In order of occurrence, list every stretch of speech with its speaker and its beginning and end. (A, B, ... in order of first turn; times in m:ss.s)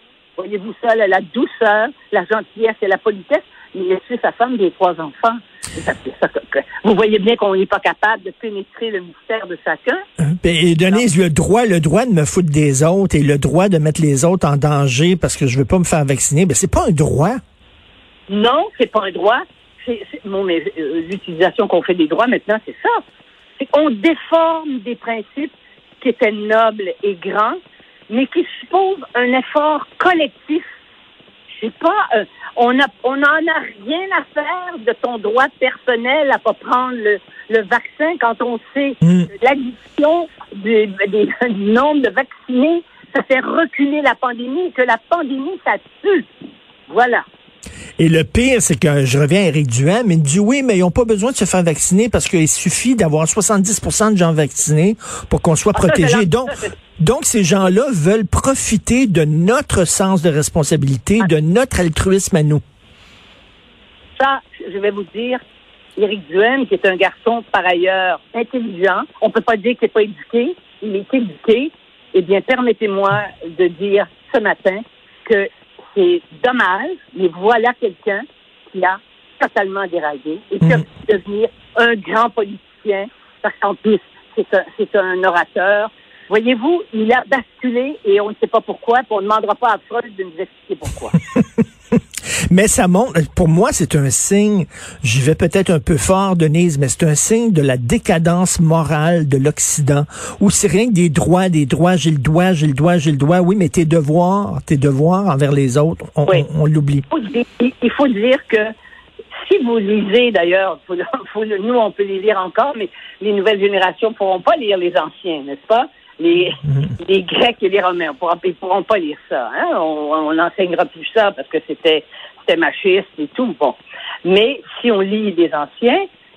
0:00.4-0:10.0 A
0:10.4-0:17.4 B
0:18.3-0:23.0 A
0:23.6-0:27.6 A
0:28.1-0:30.7 A
0:31.6-0:46.3 A
0:39.0-0:39.3 B
0:46.9-0:47.2 A
0:48.0-1:02.6 B
0:55.8-0:56.7 A
1:04.2-1:05.4 A
1:06.0-1:31.2 A
1:32.5-1:47.0 B
1:47.1-1:48.7 A
1:49.4-2:06.1 A